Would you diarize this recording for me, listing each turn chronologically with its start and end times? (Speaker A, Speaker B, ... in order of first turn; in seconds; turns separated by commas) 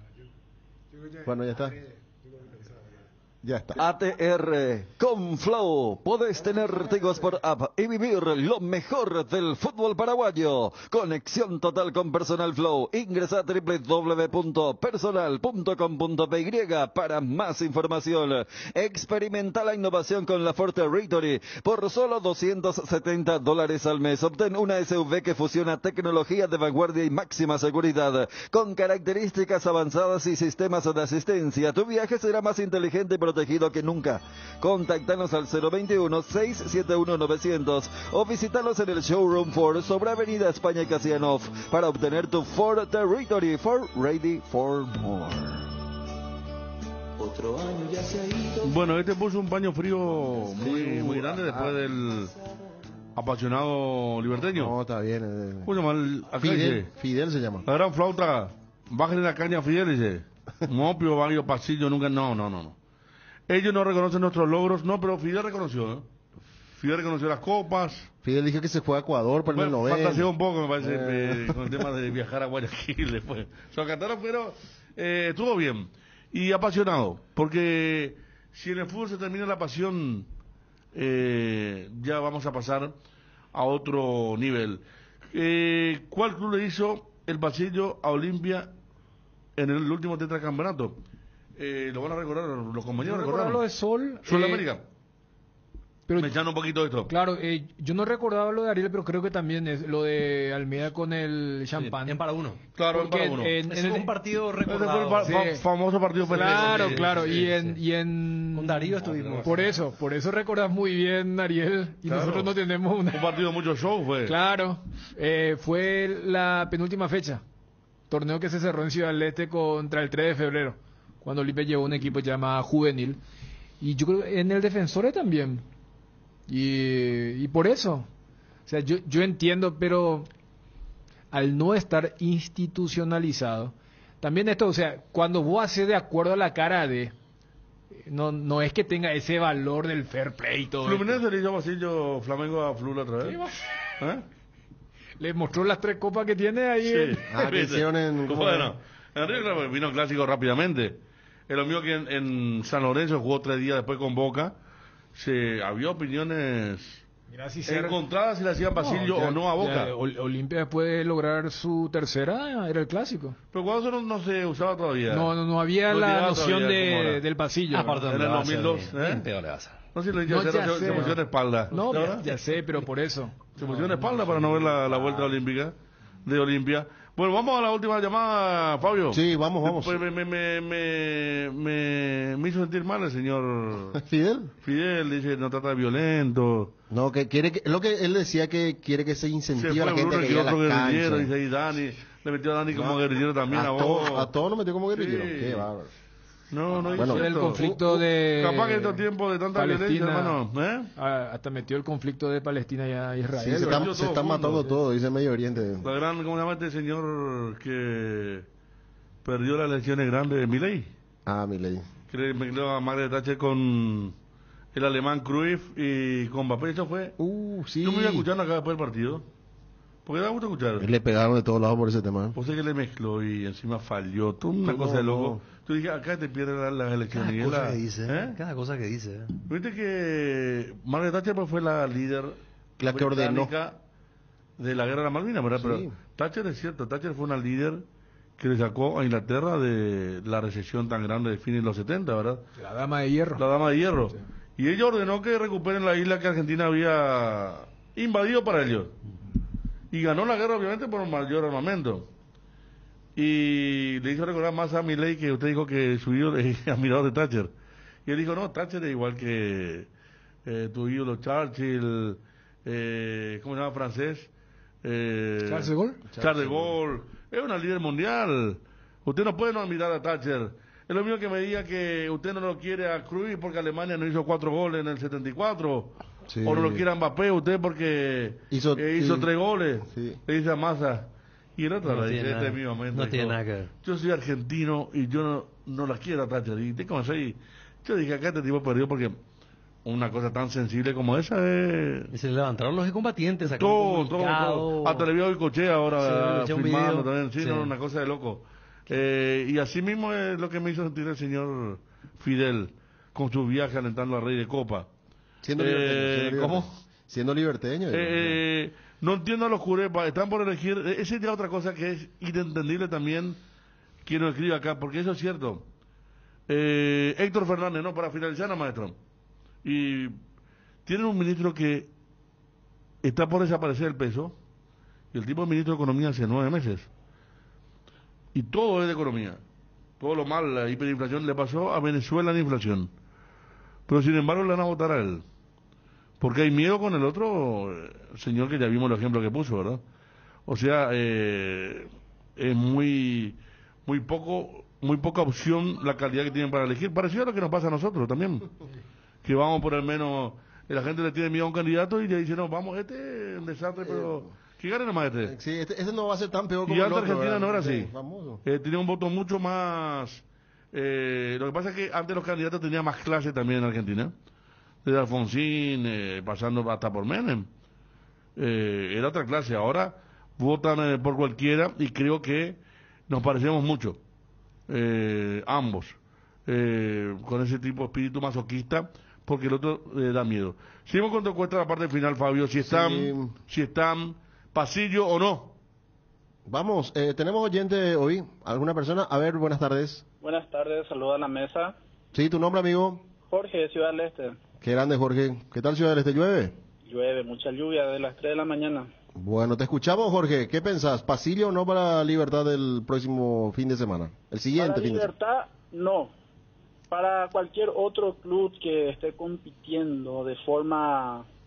Speaker A: 1.2-1.8, Speaker A: 3.4-3.8, Speaker B: 3.8-45.7, Speaker B: 47.7-48.5, Speaker C: 48.6-52.3, Speaker A: 50.6-51.7, Speaker C: 53.2-54.7, Speaker A: 54.5-55.7, Speaker C: 55.6-56.9, Speaker A: 56.4-57.6, Speaker C: 57.7-62.8, Speaker C: 63.5-66.1, Speaker C: 66.8-68.1, Speaker A: 68.2-70.3, Speaker C: 69.5-80.3, Speaker A: 70.8-71.6, Speaker C: 81.0-83.0, Speaker C: 83.5-84.8, Speaker C: 85.3-88.7, Speaker C: 89.6-91.0, Speaker C: 91.6-93.6, Speaker D: 93.0-94.7, Speaker C: 94.2-94.8, Speaker D: 96.1-96.4, Speaker C: 96.2-97.1, Speaker D: 97.1-102.2, Speaker E: 102.0-102.6, Speaker C: 102.8-103.6, Speaker D: 102.9-104.1, Speaker E: 103.7-105.5, Speaker C: 104.7-107.5, Speaker D: 105.2-105.6, Speaker D: 106.3-113.3, Speaker E: 106.3-107.8, Speaker E: 108.5-109.8, Speaker C: 109.0-109.6, Speaker C: 112.1-112.5, Speaker C: 113.1-114.4, Speaker D: 114.3-117.4, Speaker D: 118.1-123.2, Speaker D: 123.8-125.6, Speaker D: 126.5-128.1, Speaker D: 128.7-130.3, Speaker D: 131.3-137.1, Speaker D: 138.1-141.2, Speaker C: 140.8-143.4, Speaker D: 143.2-143.5, Speaker C: 144.0-144.2, Speaker D: 145.2-147.4, Speaker C: 146.8-154.5, Speaker A: 147.3-148.7, Speaker C: 155.2-157.0, Speaker D: 157.3-158.0, Speaker C: 157.7-159.9, Speaker D: 158.8-163.4, Speaker C: 163.5-165.3, Speaker D: 165.1-168.1, Speaker C: 165.9-167.2, Speaker E: 167.7-169.8, Speaker C: 168.1-169.2, Speaker C: 169.9-172.3, Speaker D: 170.3-171.2, Speaker E: 170.8-171.2, Speaker D: 171.7-173.4, Speaker E: 171.7-172.3, Speaker C: 173.6-184.0, Speaker E: 173.7-175.3, Speaker A: 179.1-180.0, Speaker A: 183.9-184.5, Speaker C: 184.6-186.7, Speaker A: 186.9-191.3, Speaker C: 189.6-194.3, Speaker A: 192.7-195.9, Speaker C: 194.9-195.7, Speaker C: 196.5-200.9, Speaker A: 196.9-197.3, Speaker D: 196.9-200.4, Speaker D: 201.0-204.0, Speaker A: 203.4-205.9, Speaker C: 203.5-204.7, Speaker C: 205.8-208.5, Speaker C: 209.2-210.9, Speaker A: 211.3-211.9, Speaker C: 212.1-214.1, Speaker C: 214.7-217.2, Speaker A: 217.2-218.3, Speaker C: 217.8-219.3, Speaker C: 220.1-220.9, Speaker A: 220.8-222.4, Speaker C: 222.3-228.3, Speaker A: 224.6-225.4, Speaker E: 227.1-229.3, Speaker C: 229.5-233.8, Speaker A: 232.8-233.5, Speaker C: 234.6-237.8, Speaker A: 235.6-235.9, Speaker C: 238.4-242.5, Speaker D: 242.6-243.4, Speaker C: 243.4-249.0, Speaker C: 249.9-252.1, Speaker C: 253.2-257.5, Speaker C: 258.1-259.9, Speaker C: 260.5-264.3, Speaker C: 264.8-289.2, Speaker D: 265.4-266.0, Speaker A: 266.1-266.8, Speaker A: 276.3-276.9, Speaker A: 278.5-279.3, Speaker A: 279.9-280.2, Speaker E: 281.9-283.7, Speaker C: 289.9-292.1, Speaker E: 292.1-295.1, Speaker C: 293.6-304.9, Speaker E: 296.0-297.7, Speaker A: 305.4-308.4, Speaker C: 305.6-306.7, Speaker C: 307.9-313.4, Speaker C: 314.1-315.7, Speaker C: 316.5-319.0, Speaker C: 319.6-320.2, Speaker C: 320.9-321.9, Speaker C: 323.0-324.4, Speaker C: 325.1-326.9, Speaker C: 328.3-329.4, Speaker C: 330.0-332.9, Speaker C: 333.9-335.2, Speaker C: 336.2-339.8, Speaker C: 340.5-348.5, Speaker C: 349.2-355.3, Speaker A: 353.8-354.3, Speaker A: 355.2-358.4, Speaker C: 356.6-357.9, Speaker C: 358.4-364.1, Speaker C: 364.9-367.5, Speaker C: 368.4-374.0, Speaker C: 374.7-376.0, Speaker C: 376.5-385.6, Speaker A: 382.6-383.4, Speaker A: 386.5-390.1, Speaker F: 390.2-391.8, Speaker A: 392.1-393.0, Speaker F: 393.3-394.4, Speaker A: 394.6-396.6, Speaker F: 396.9-398.9, Speaker A: 399.2-405.1, Speaker F: 404.6-406.1, Speaker F: 406.9-411.3